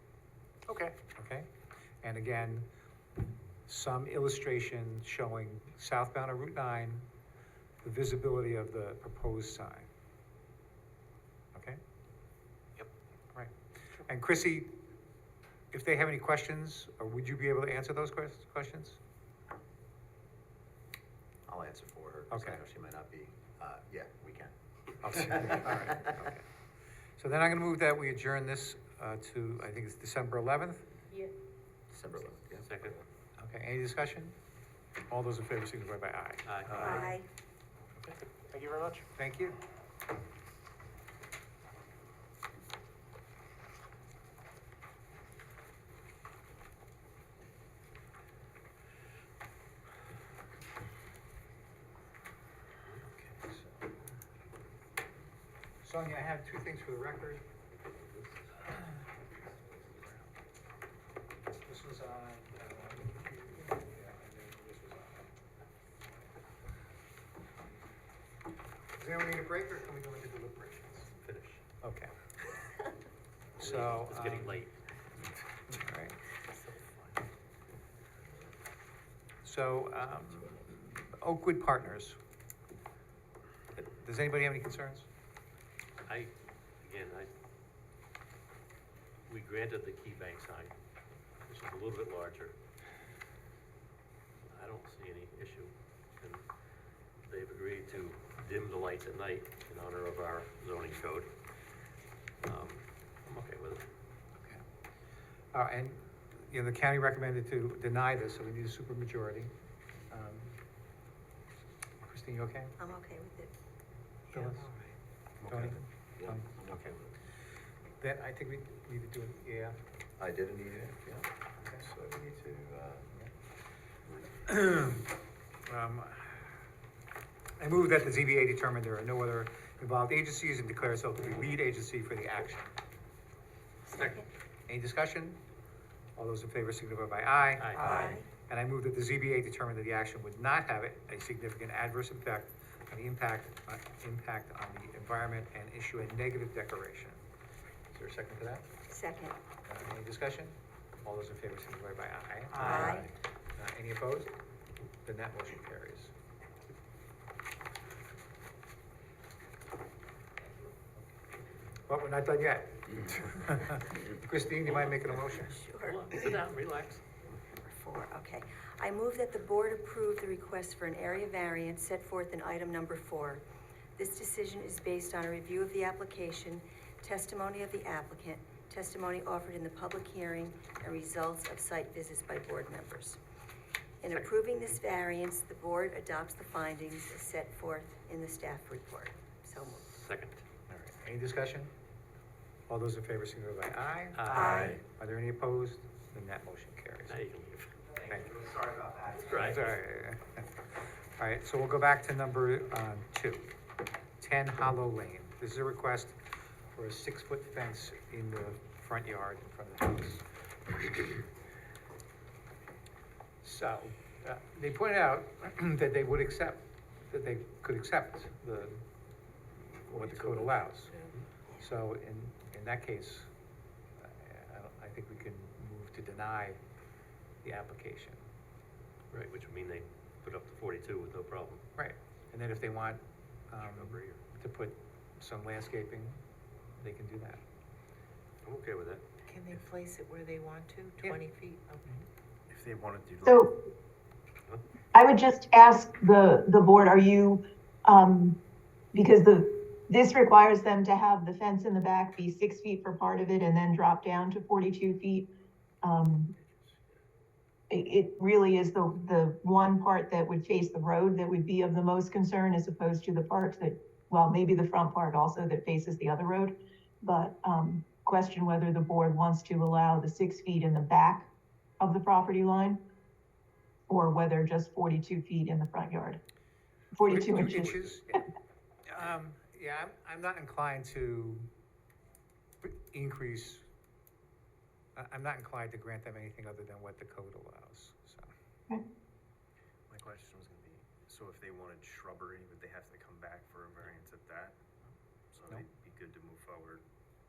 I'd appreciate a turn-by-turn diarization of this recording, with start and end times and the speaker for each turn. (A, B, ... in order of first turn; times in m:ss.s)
0:00.7-0:01.5 A
0:02.0-0:02.7 A
0:03.7-0:07.0 A
0:07.8-0:09.9 A
0:11.5-0:11.8 A
0:13.3-0:14.8 A
0:15.7-0:19.0 A
0:21.5-0:24.5 B
0:22.3-0:22.6 A
0:25.0-0:26.4 A
0:25.0-0:26.1 B
0:27.2-0:30.9 A
0:31.9-0:33.0 B
0:32.6-0:33.0 C
0:33.4-0:34.3 A
0:35.1-0:37.2 A
0:36.4-0:37.1 C
0:36.8-0:37.2 D
0:38.0-0:39.0 C
0:39.2-0:39.6 A
0:53.1-0:53.9 A
0:55.8-0:57.4 A
1:01.6-1:05.3 A
1:09.0-1:11.1 A
1:11.2-1:11.6 C
1:11.8-1:12.1 A
1:13.6-1:14.6 A
1:13.6-1:14.7 C
1:15.7-1:16.2 A
1:19.4-1:22.2 A
1:23.7-1:25.1 A
1:26.0-1:27.3 C
1:29.3-1:30.7 C
1:31.5-1:32.6 C
1:34.5-1:36.5 C
1:37.2-1:41.3 C
1:42.4-1:43.8 C
1:45.5-1:49.5 A
1:50.1-1:50.6 A
1:52.0-1:52.7 A
1:52.8-1:53.5 D
1:54.3-1:54.7 A
1:55.4-1:57.1 B
1:55.4-1:56.5 A
1:58.0-1:59.8 A
2:00.2-2:03.1 B
2:01.6-2:01.9 A
2:04.0-2:04.3 B
2:04.4-2:05.1 A
2:05.7-2:06.6 A
2:07.6-2:12.7 A
2:13.9-2:14.2 D
2:13.9-2:14.2 C
2:14.7-2:15.4 A
2:16.2-2:27.2 A
2:17.6-2:18.0 C
2:17.7-2:18.3 D
2:27.9-2:28.7 A
2:28.9-2:29.3 D
2:29.6-2:34.3 A
2:32.5-2:33.1 D
2:35.0-2:36.1 A
2:41.9-2:45.6 A
2:45.3-2:46.1 D
2:45.8-2:47.0 C
2:47.6-2:53.4 D
2:54.0-3:03.2 D
3:04.0-3:10.0 D
3:09.9-3:10.4 C
3:10.7-3:11.7 A
3:12.7-3:17.2 A
3:14.1-3:14.8 C
3:14.3-3:14.8 D
3:17.1-3:17.7 C
3:18.0-3:18.4 A
3:18.2-3:19.4 B
3:19.2-3:19.8 C
3:19.3-3:20.5 A
3:21.2-3:23.5 A
3:24.2-3:26.2 A
3:26.7-3:30.3 A
3:33.4-3:38.8 A
3:39.5-3:40.9 A
3:39.9-3:40.6 C
3:41.6-3:43.3 A
3:44.0-3:46.6 A
3:47.4-3:48.2 A
3:49.1-3:51.6 C
3:51.8-3:56.2 A
3:53.6-3:54.2 C
3:56.8-3:57.4 A
3:58.4-3:59.0 C
3:59.3-4:01.8 E
4:01.0-4:01.2 A
4:02.5-4:03.5 F
4:03.2-4:03.5 G
4:04.9-4:08.4 G
4:08.9-4:15.3 G
4:15.8-4:16.3 G
4:17.7-4:31.3 G
4:31.8-4:32.8 G
4:33.9-4:36.2 G
4:36.9-4:38.0 G
4:37.0-4:38.2 A
4:38.8-4:41.5 A
4:42.6-4:43.6 A
4:45.0-4:48.3 A
4:49.9-4:54.6 F
4:55.4-4:56.8 F